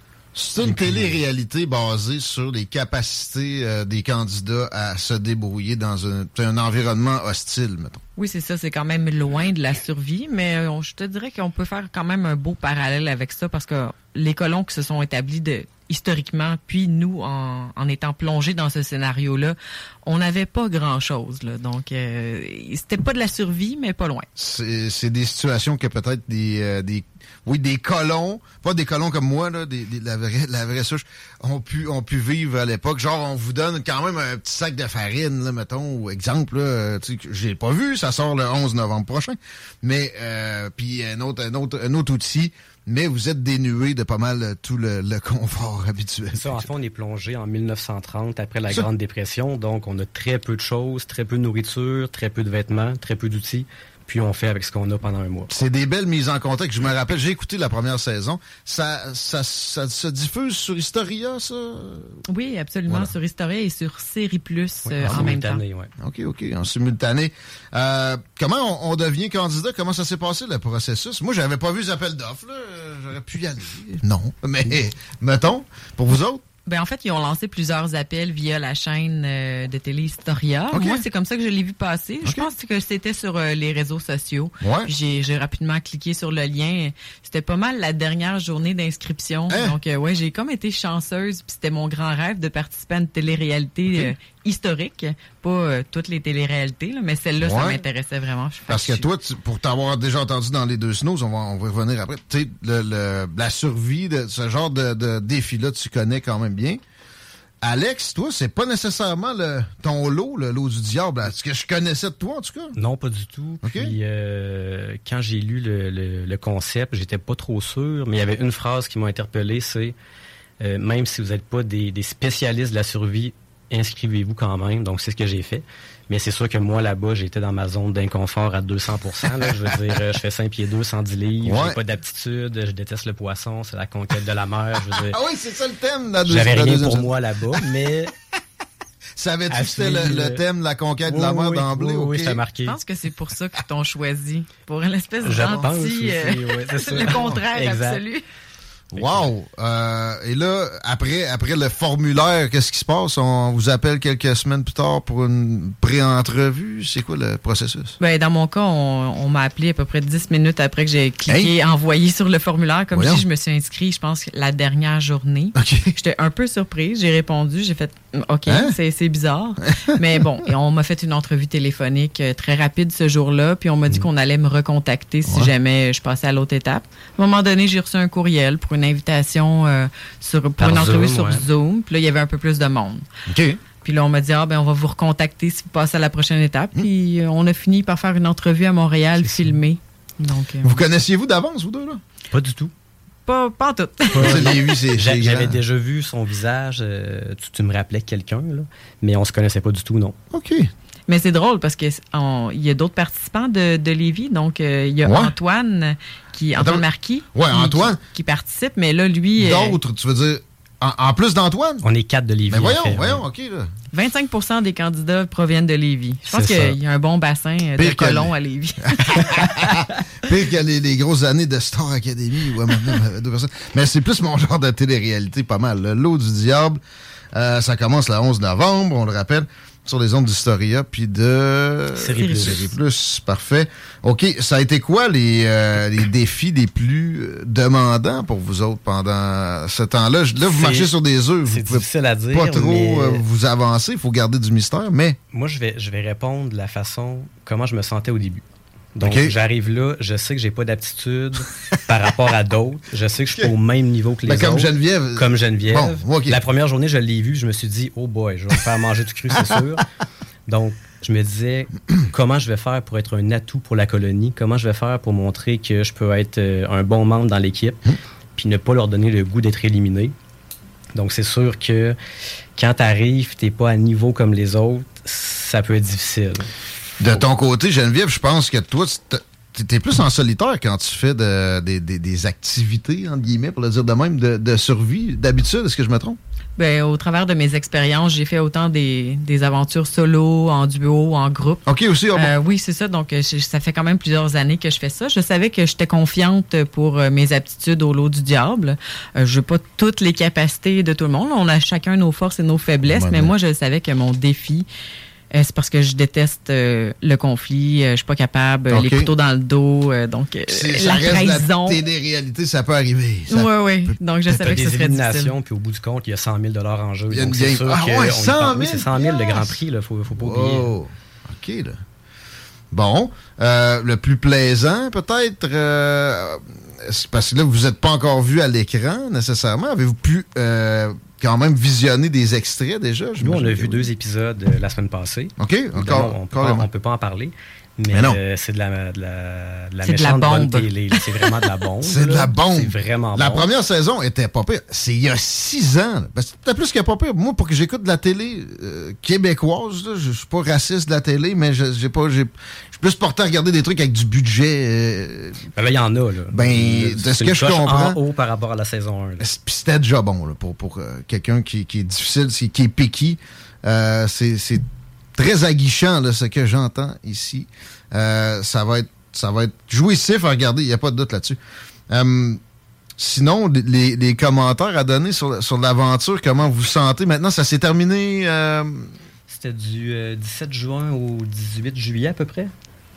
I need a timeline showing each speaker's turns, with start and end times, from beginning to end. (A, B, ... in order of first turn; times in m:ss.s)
0:00.3-0:08.0 A
0:00.6-0:01.2 B
0:08.2-0:24.2 C
0:24.4-0:46.6 A
0:46.3-0:55.5 B
0:55.5-1:02.2 A
1:02.3-1:05.6 C
1:02.9-1:03.1 A
1:04.8-1:05.9 B
1:05.0-1:05.3 A
1:06.0-1:16.4 A
1:16.6-1:39.1 C
1:20.7-1:21.0 A
1:24.6-1:24.9 A
1:29.5-1:29.8 A
1:37.4-1:37.8 A
1:38.7-1:46.8 A
1:47.6-1:52.8 A
1:52.8-2:00.0 B
1:53.6-1:53.9 A
2:00.6-2:15.2 B
2:11.4-2:11.8 A
2:15.0-2:17.1 A
2:16.2-2:18.1 B
2:19.2-2:22.4 A
2:19.5-2:20.4 B
2:21.0-2:22.8 B
2:22.6-2:28.2 C
2:25.2-2:28.0 B
2:25.4-2:25.6 A
2:26.9-2:27.4 A
2:28.9-2:38.0 A
2:29.0-2:29.3 B
2:38.0-3:03.0 C
2:42.9-2:43.2 A
2:45.6-2:46.0 A
2:48.5-2:48.8 A
2:55.2-2:55.5 A
3:00.6-3:01.4 B
3:03.3-3:03.6 A
3:03.8-3:10.8 C
3:09.2-3:09.6 B
3:10.6-3:12.0 A
3:12.3-3:12.7 B
3:13.2-3:14.5 C
3:14.1-3:20.2 B
3:14.1-3:15.6 A
3:20.3-3:20.7 A
3:21.1-3:29.8 C
3:25.0-3:25.3 A
3:26.6-3:28.0 A
3:29.4-3:31.9 A
3:31.8-3:33.2 B
3:32.5-3:33.7 A
3:33.9-3:39.5 C
3:36.3-3:36.8 B
3:37.8-3:38.3 A
3:38.8-3:46.8 A
3:47.3-4:05.2 A
3:51.9-3:52.6 B
3:52.2-3:52.7 C
4:00.4-4:00.9 B
4:01.4-4:03.2 B
4:05.3-4:08.4 B
4:08.9-4:19.8 B
4:09.0-4:09.3 A
4:14.3-4:16.4 A
4:20.5-4:30.1 B
4:30.9-4:32.0 B
4:32.6-4:36.5 B
4:37.0-4:46.2 A
4:46.6-5:04.6 C
4:51.6-4:52.3 A
5:02.8-5:03.3 A
5:05.3-5:11.8 C
5:08.7-5:09.1 A
5:10.5-5:14.0 A
5:13.3-5:15.3 C
5:14.3-5:20.7 B
5:17.1-5:19.6 A
5:20.1-5:21.8 A
5:22.7-5:33.9 A
5:33.2-5:43.5 B
5:35.4-5:36.7 A
5:37.9-5:38.2 A
5:39.8-5:40.8 C
5:41.8-5:55.4 A
5:55.5-5:59.3 B
5:56.3-5:58.0 A
5:59.2-6:04.6 A
6:05.2-6:11.4 A
6:11.9-6:12.4 A
6:13.0-6:18.9 A
6:19.3-6:22.5 B